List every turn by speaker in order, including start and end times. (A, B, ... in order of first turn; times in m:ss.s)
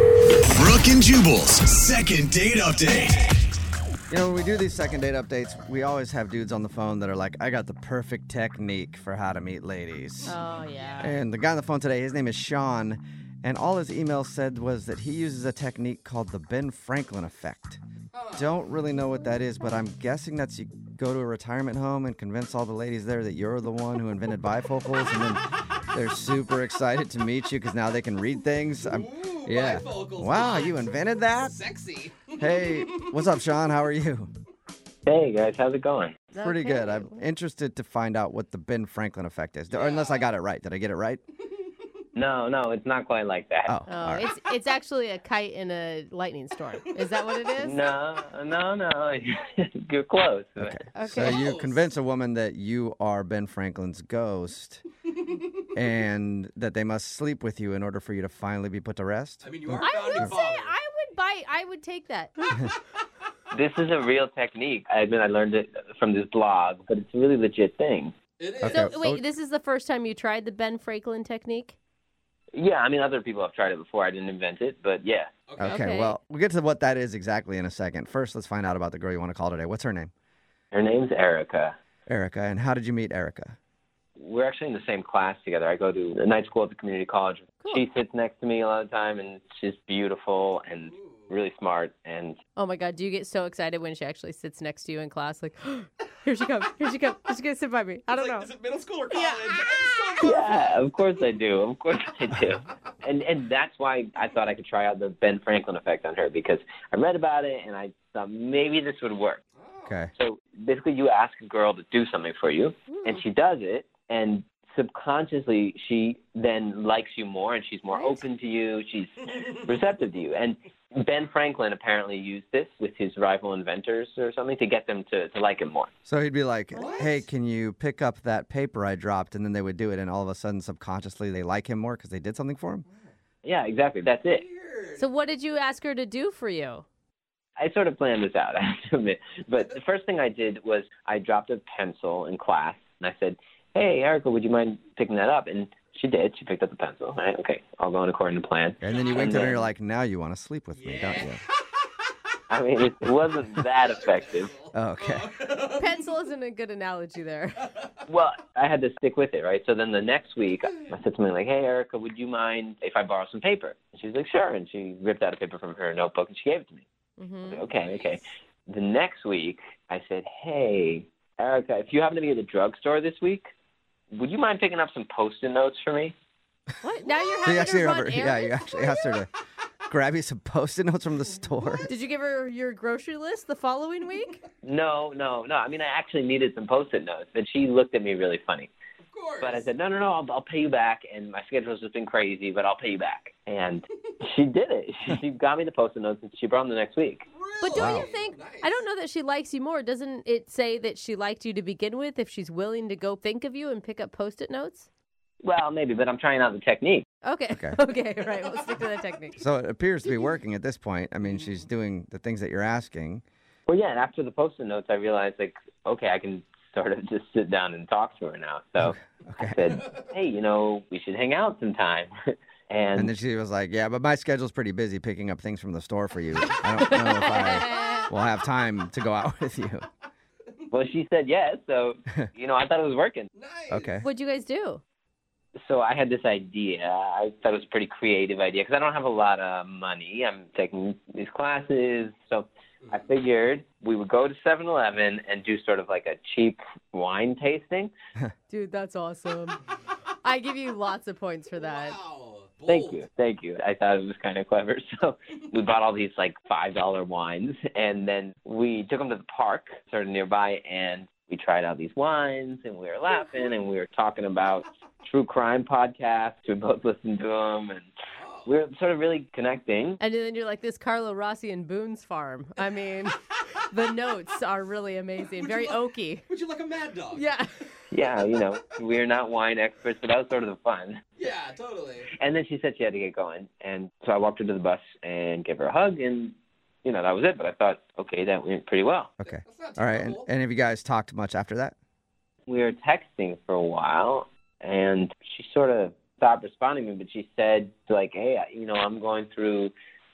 0:00.6-0:03.3 A
0:04.1-0:10.4 B
0:10.3-0:11.2 C
0:10.7-0:11.1 D
0:11.0-0:17.8 B
0:18.1-0:18.6 D
0:18.4-0:31.6 B
0:28.8-0:30.8 D
0:31.4-0:33.2 D
0:32.4-0:34.3 B
0:35.1-0:36.2 E
0:36.3-0:37.2 C
0:36.4-0:41.2 B
0:39.7-0:40.3 D
0:42.2-0:43.8 E
0:43.7-0:44.3 B
0:43.9-0:47.8 C
0:47.6-0:50.8 E
0:50.6-0:54.8 B
0:50.9-0:51.4 C
0:51.2-0:51.8 D
0:55.8-1:00.4 B
0:59.4-1:00.7 D
0:59.8-1:02.6 C
1:03.5-1:08.2 E
1:08.4-1:08.9 D
1:08.6-1:09.2 B
1:08.7-1:11.8 C
1:12.5-1:15.3 E
1:15.5-1:15.8 D
1:15.6-1:20.1 B
1:15.6-1:16.2 C
1:20.7-1:21.8 E
1:22.1-1:23.6 B
1:24.2-1:32.4 E
1:30.8-1:31.3 D
1:32.6-1:38.5 C
1:38.1-1:40.7 D
1:39.1-1:39.4 C
1:40.2-1:49.4 E
1:49.6-1:50.0 D
1:49.9-1:50.1 B
1:50.1-2:05.9 E
1:52.9-1:53.2 C
1:57.9-1:58.2 C
2:06.1-2:12.8 B
2:06.7-2:07.2 D
2:06.8-2:07.0 C
2:13.4-2:14.4 E
2:14.2-2:15.1 D
2:15.0-2:16.8 C
2:17.6-2:29.6 E
2:28.8-2:31.4 B
2:28.8-2:29.4 D
2:30.8-2:31.9 D
2:32.5-2:34.5 E
2:33.8-2:36.0 D
2:34.7-2:35.3 B
2:35.7-2:37.7 C
2:38.1-2:46.8 E
2:40.6-2:41.0 D
2:47.2-2:47.6 C
2:47.5-2:53.5 E
2:47.7-2:48.2 D
2:54.1-2:56.2 E
2:56.8-2:59.0 C
2:57.4-2:59.3 B
2:59.9-3:01.9 B
3:01.9-3:04.4 C
3:04.6-3:08.7 E
3:09.1-3:09.7 D
3:09.4-3:17.2 E
3:17.3-3:18.8 D
3:17.6-3:24.9 C
3:17.7-3:18.1 B
3:25.4-3:27.1 E
3:27.2-3:29.4 C
3:27.5-3:27.8 B
3:29.4-3:33.2 B
3:33.7-3:42.1 E
3:38.8-3:39.6 B
3:42.7-3:43.1 E
3:43.0-3:49.9 B
3:46.8-3:48.1 C
3:50.7-3:53.3 E
3:53.3-3:54.0 D
3:53.7-3:54.0 B
3:54.0-3:54.8 C
3:55.6-4:07.9 E
4:08.5-4:09.6 C
4:10.2-4:12.0 C
4:11.6-4:13.0 D
4:12.7-4:27.9 E
4:28.1-4:28.5 D
4:28.4-4:30.0 E
4:30.0-4:36.3 C
4:35.4-4:35.8 D
4:36.3-4:37.2 D
4:37.1-4:37.5 C
4:37.9-4:41.0 E
4:41.2-4:42.1 D
4:42.2-4:46.3 E
4:46.8-4:49.1 E
4:49.2-4:51.8 B
4:49.2-4:50.3 D
4:52.5-4:59.7 E